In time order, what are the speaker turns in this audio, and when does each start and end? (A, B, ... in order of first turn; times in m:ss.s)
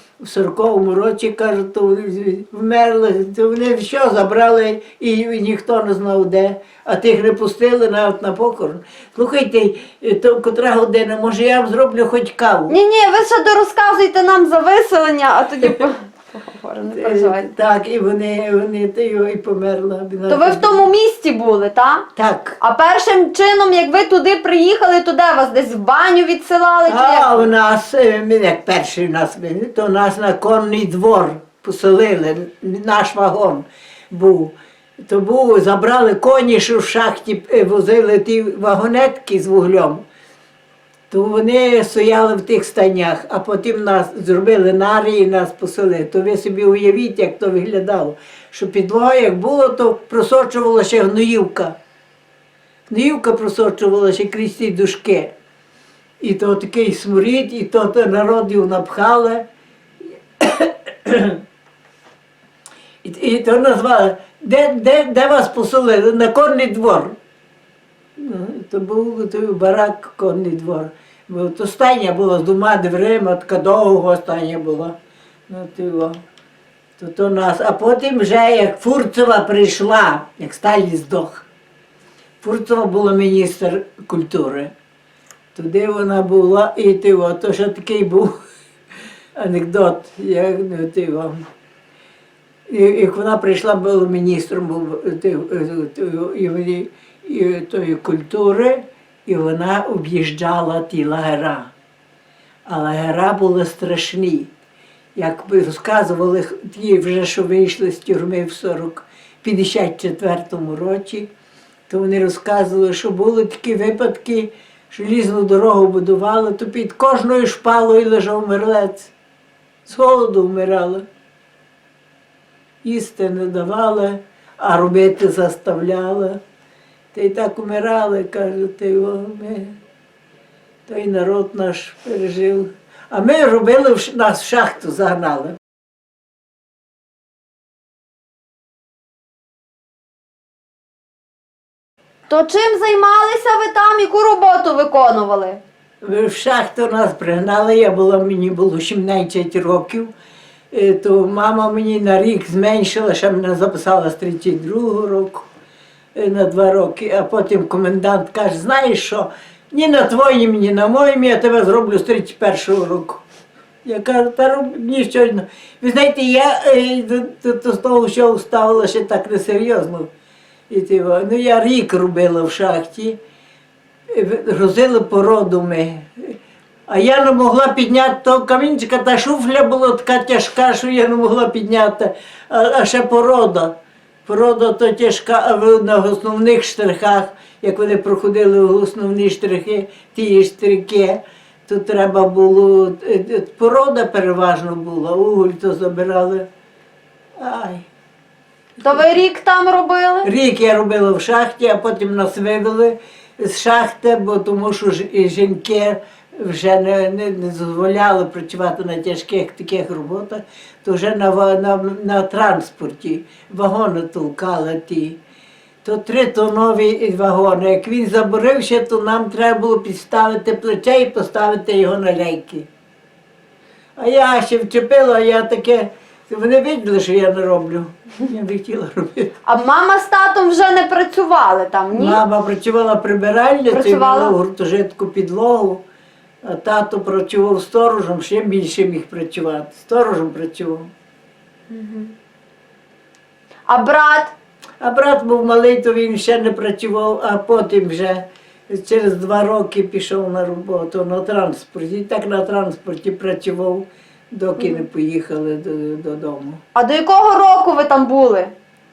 0:00.2-0:12.8 A
0:12.7-0:17.5 B
0:17.0-0:20.8 A
0:20.3-0:22.1 B
0:22.2-0:22.6 A
0:22.6-0:27.5 B
0:26.9-0:34.6 A
0:35.1-0:40.0 A
0:41.1-0:51.8 A
0:52.9-0:55.3 A
0:56.2-0:59.4 A
1:00.4-1:01.4 A
1:03.0-1:07.2 A
1:08.2-1:14.9 A
1:15.5-1:16.2 A
1:17.0-1:21.5 A
1:22.4-1:24.7 A
1:25.6-1:28.3 A
1:29.4-1:31.4 A
1:32.7-1:41.7 A
1:42.7-1:44.5 A
1:45.2-1:51.3 A
1:51.9-1:59.1 A
1:59.8-2:01.0 A
2:02.8-2:06.4 A
2:07.1-2:09.8 A
2:10.9-2:15.6 A
2:22.3-2:25.6 B
2:26.0-2:30.1 A
2:30.7-2:35.5 A
2:36.2-2:43.2 A
2:43.8-2:50.1 A
2:50.7-2:53.2 A
2:54.1-2:56.4 A
2:56.9-3:16.5 A
3:17.4-3:17.9 A
3:18.8-3:20.3 B
3:20.2-3:35.2 A
3:35.8-3:42.7 A
3:44.0-3:49.3 A
3:49.5-3:52.2 B
3:51.9-3:55.8 A
3:53.7-3:54.4 B
3:56.4-4:00.9 A
4:01.7-4:02.1 B
4:03.7-4:04.3 B
4:04.8-4:16.6 A
4:14.6-4:14.8 B
4:16.8-4:18.5 B